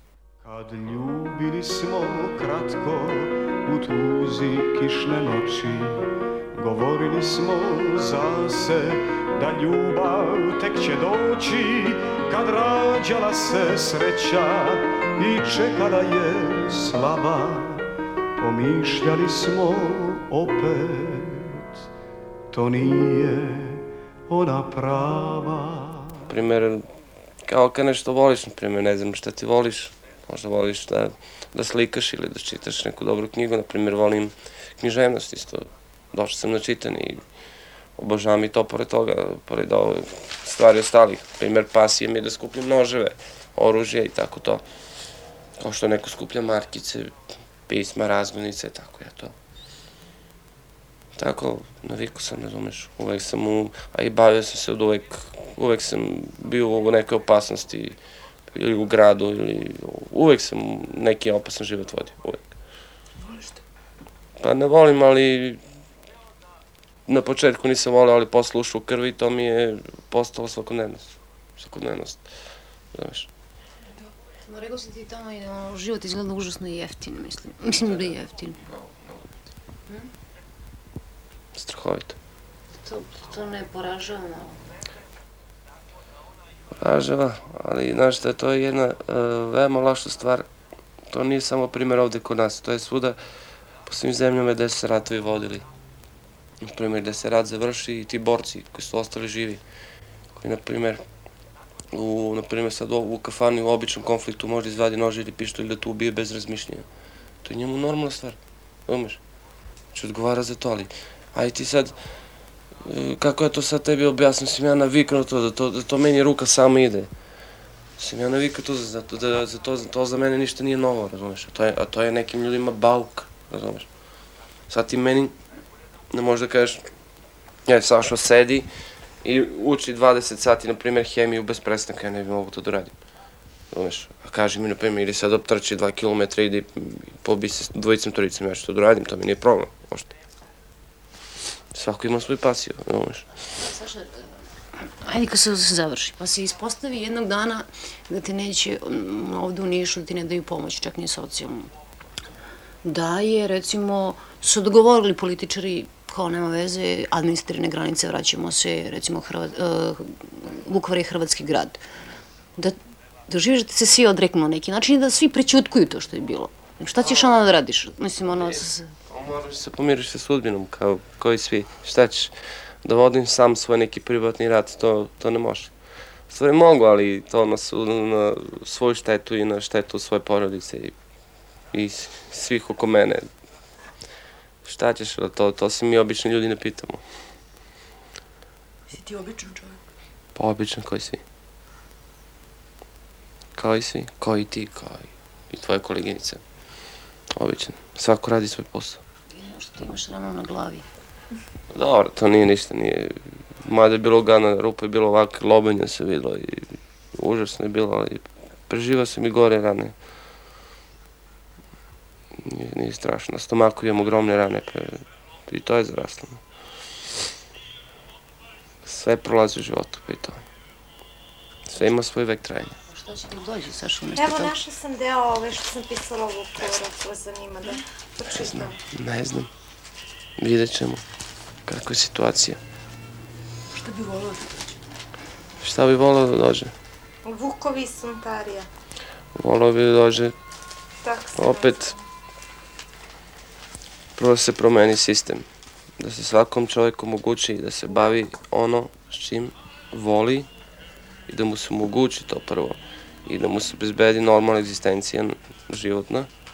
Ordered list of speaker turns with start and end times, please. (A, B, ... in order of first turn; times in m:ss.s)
0:00.4-0:17.9 A
0:18.4-0:21.8 A
0:22.5-0:26.3 A
0:26.3-0:26.9 B
0:27.4-0:37.2 B
0:38.0-0:44.6 B
0:45.6-0:49.3 B
0:51.2-0:58.0 B
0:58.5-1:02.5 B
1:03.2-1:03.6 C
1:04.4-1:05.6 B
1:07.1-1:12.2 B
1:12.9-1:13.3 B
1:14.4-1:18.6 D
1:17.7-1:19.4 B
1:21.6-1:22.2 B
1:22.8-1:24.6 D
1:26.8-1:30.5 B
1:31.1-1:33.2 B
1:33.9-1:35.6 B
1:36.6-1:39.6 B
1:40.4-1:41.0 B
1:41.9-1:46.8 B
1:47.4-1:49.2 B
1:49.9-1:52.0 B
1:52.8-1:57.1 B
1:58.0-2:03.9 B
2:04.7-2:05.3 B
2:06.1-2:06.9 B
2:07.6-2:08.7 B
2:09.2-2:13.0 B
2:13.7-2:20.1 B
2:21.7-2:23.2 B
2:23.5-2:31.7 D
2:32.8-2:41.8 D
2:42.6-2:48.9 D
2:47.0-2:47.4 B
2:48.3-2:55.7 B
2:56.3-3:00.9 B
3:01.7-3:03.3 B
3:04.6-3:07.0 B
3:08.9-3:09.8 C
3:10.3-3:11.2 B
3:13.6-3:16.4 B
3:17.3-3:19.0 B
3:19.3-3:20.9 D
3:21.7-3:29.9 B
3:32.4-3:36.4 B
3:38.8-3:40.4 B
3:41.7-3:42.8 B
3:42.9-3:44.5 D
3:44.2-3:48.8 E
3:48.3-3:49.5 B
3:50.4-3:51.0 B
3:51.7-3:52.6 B
3:53.7-3:54.8 C
3:55.6-3:56.7 B
3:57.2-3:58.7 E
3:59.3-4:00.3 B
4:01.0-4:02.0 E
4:01.4-4:01.9 B
4:04.2-4:05.4 B
4:06.0-4:10.5 B
4:11.3-4:16.3 B